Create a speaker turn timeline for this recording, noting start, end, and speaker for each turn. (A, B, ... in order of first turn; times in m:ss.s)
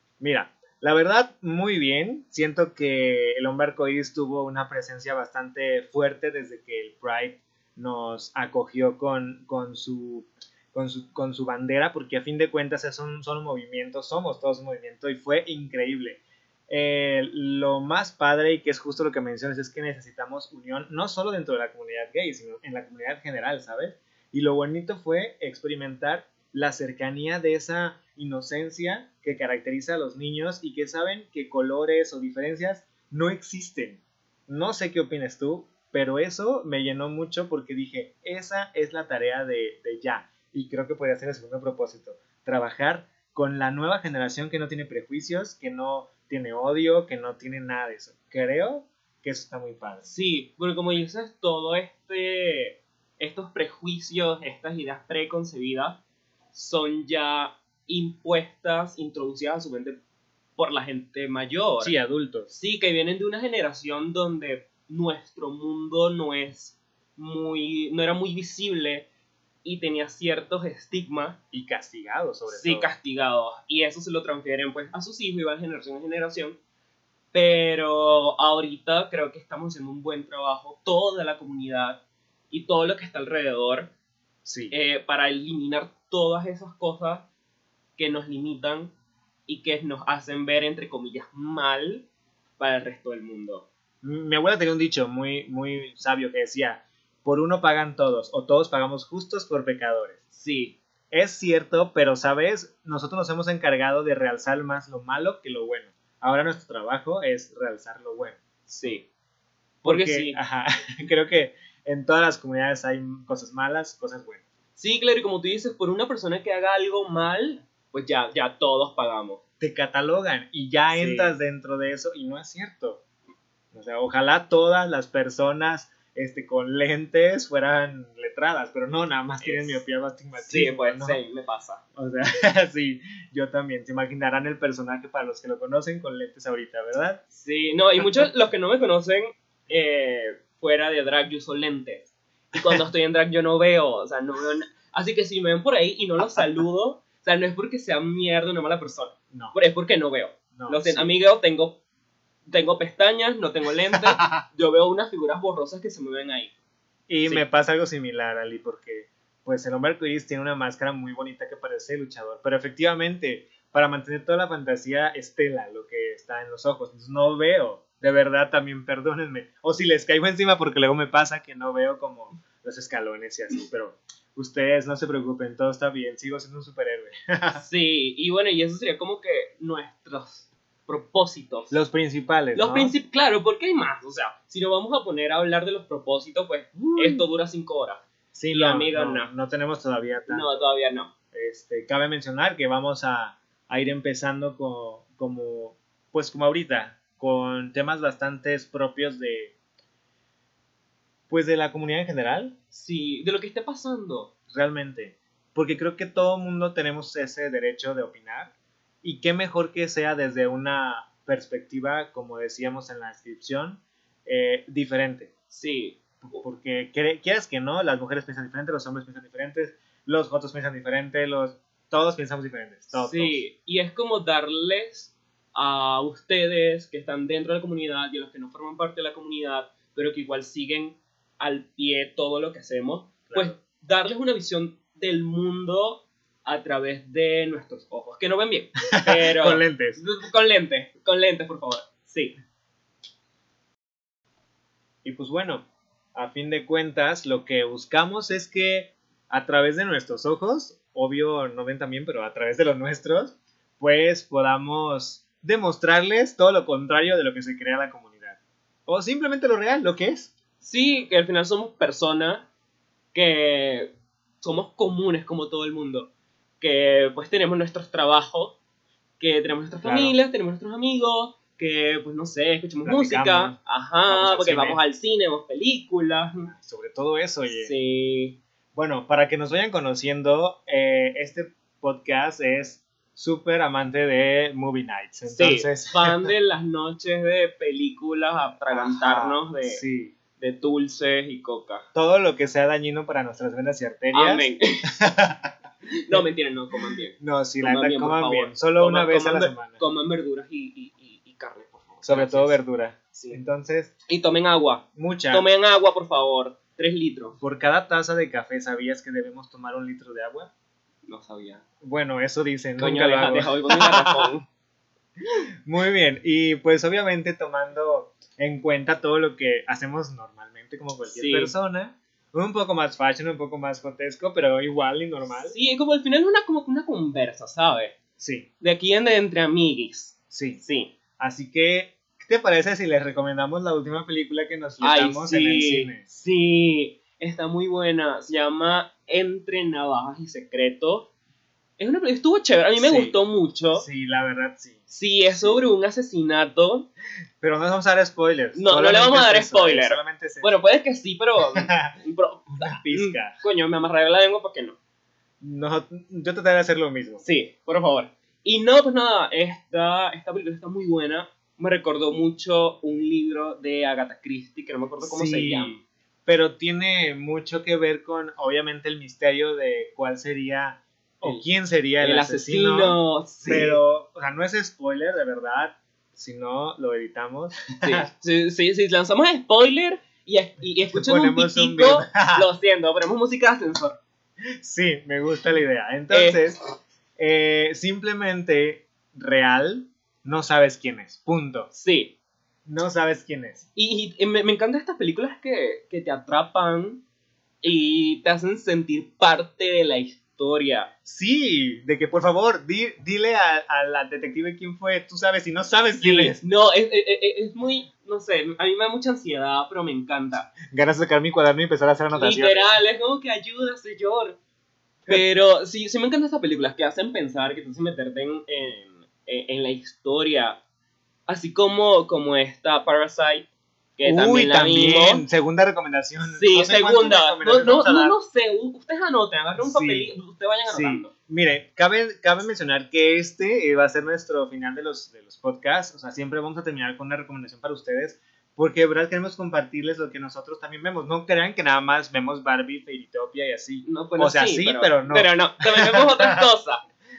0:00.2-0:50.1 A
0:50.0-0:56.0 B
0:56.5-1:00.0 B
1:00.6-1:02.0 B
1:01.8-1:02.5 A
1:02.5-1:09.1 B
1:09.6-1:11.4 B
1:11.5-1:12.9 A
1:12.5-1:16.6 B
1:17.3-1:23.9 B
1:24.4-1:24.7 A
1:24.7-1:27.3 B
1:28.0-1:28.9 B
1:29.5-1:32.1 B
1:32.6-1:33.7 B
1:34.0-1:40.2 A
1:40.3-1:40.8 B
1:41.1-1:48.4 A
1:48.7-1:49.1 B
1:49.8-1:50.4 B
1:49.8-1:54.4 A
1:54.8-1:59.4 B
1:59.6-2:03.0 A
2:00.9-2:01.3 B
2:03.7-2:11.2 A
2:09.4-2:09.8 B
2:10.4-2:11.8 B
2:12.0-2:17.2 A
2:17.3-2:31.8 B
2:22.6-2:22.8 A
2:30.6-2:31.1 A
2:32.5-2:36.5 B
2:34.0-2:34.4 A
2:37.1-2:57.6 A
2:57.6-3:01.8 B
3:01.7-3:02.9 A
3:02.6-3:09.3 B
3:06.8-3:07.3 A
3:08.4-3:10.6 A
3:10.3-3:11.1 B
3:11.3-3:19.6 A
3:21.3-3:22.5 A
3:22.7-3:24.3 B
3:24.5-3:28.5 A
3:29.0-3:35.3 A
3:35.5-3:36.4 B
3:36.2-3:43.4 A
3:42.9-4:02.4 B
3:53.3-3:53.6 A
3:58.9-4:00.0 A
4:05.0-4:20.3 A
4:20.6-4:22.5 B
4:23.1-4:28.6 B
4:29.2-4:36.5 B
4:29.8-4:30.2 A
4:32.8-4:33.6 A
4:34.1-4:34.8 A
4:36.5-4:37.7 A
4:37.5-4:38.4 B
4:38.7-4:46.3 A
4:45.3-4:49.8 B
4:48.7-4:50.2 A
4:50.4-4:51.9 B
4:52.0-4:55.5 A
4:54.1-4:54.8 B
4:55.9-5:02.6 B
4:57.2-4:59.8 A
5:02.0-5:03.9 A
5:03.1-5:03.4 B
5:04.1-5:07.4 B
5:05.0-5:05.5 A
5:07.4-5:10.5 A
5:11.1-5:11.6 B
5:11.8-5:14.3 A
5:12.8-5:14.5 B
5:15.7-5:25.6 A
5:21.1-5:21.5 B
5:25.4-5:27.9 B
5:28.2-5:28.5 A
5:28.6-5:30.9 B
5:30.3-5:30.6 A
5:31.2-5:36.1 A
5:34.8-5:41.1 B
5:41.8-5:43.9 B
5:42.8-5:43.2 A
5:43.7-5:45.6 A
5:44.9-5:46.9 B
5:47.4-5:50.6 A
5:48.5-5:54.8 B
5:51.6-5:52.0 A
5:52.6-5:53.4 A
5:55.4-5:57.2 A
5:57.2-6:05.8 B
6:05.0-6:18.1 A
6:12.0-6:13.8 B
6:17.8-6:24.0 B
6:20.9-6:22.5 A
6:24.6-6:26.6 A
6:26.1-6:26.6 B
6:27.2-6:31.7 A
6:31.7-6:32.1 B
6:32.7-6:33.7 A
6:33.8-6:37.0 B
6:37.6-6:40.9 B
6:41.1-6:46.4 A
6:46.0-6:50.6 B
6:50.6-6:52.8 A
6:52.1-6:54.4 B
6:55.1-7:00.6 B
7:01.3-7:05.2 B
7:04.0-7:08.2 A
7:06.3-7:11.1 B
7:09.6-7:10.1 A
7:10.7-7:26.5 A
7:23.8-7:26.8 B